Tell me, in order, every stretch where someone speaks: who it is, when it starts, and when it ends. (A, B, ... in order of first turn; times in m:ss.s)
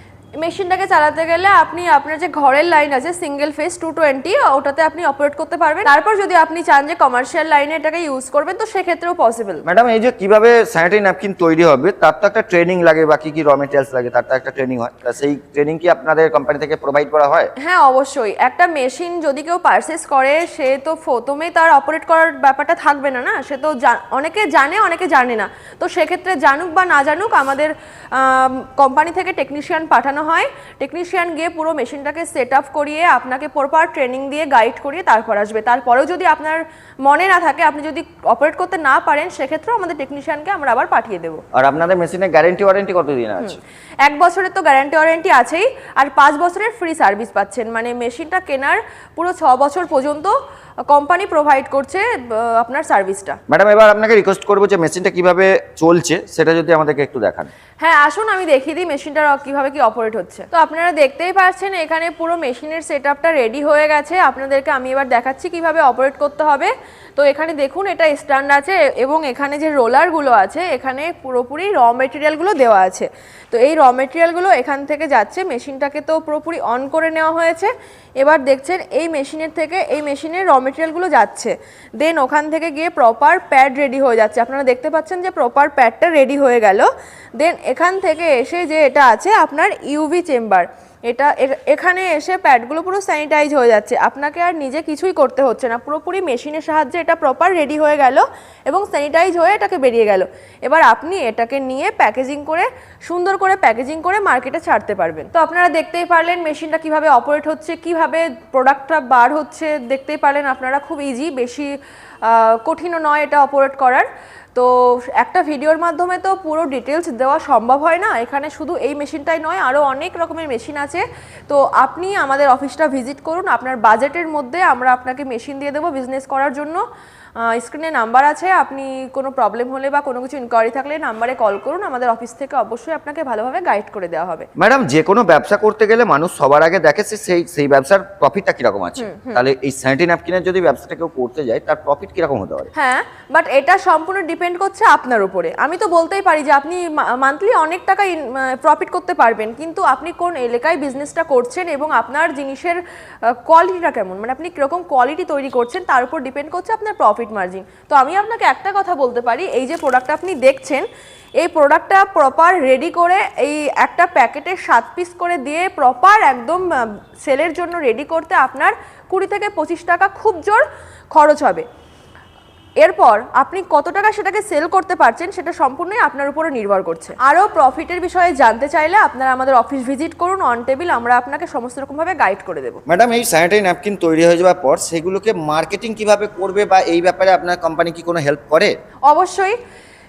0:00.4-0:09.6 A
0:09.7-0:17.5 B
0:17.6-0:41.4 A
0:41.5-0:43.6 B
0:43.4-0:50.4 A
0:50.9-0:53.4 A
0:53.5-0:57.5 B
0:57.8-1:51.7 A
1:52.2-2:06.8 A
2:07.4-2:14.5 A
2:14.6-2:22.7 B
2:19.0-2:19.4 A
2:22.8-2:32.8 A
2:33.3-2:40.8 A
2:41.4-2:51.6 A
2:52.8-3:02.8 A
3:02.9-3:08.7 B
3:09.1-3:09.6 A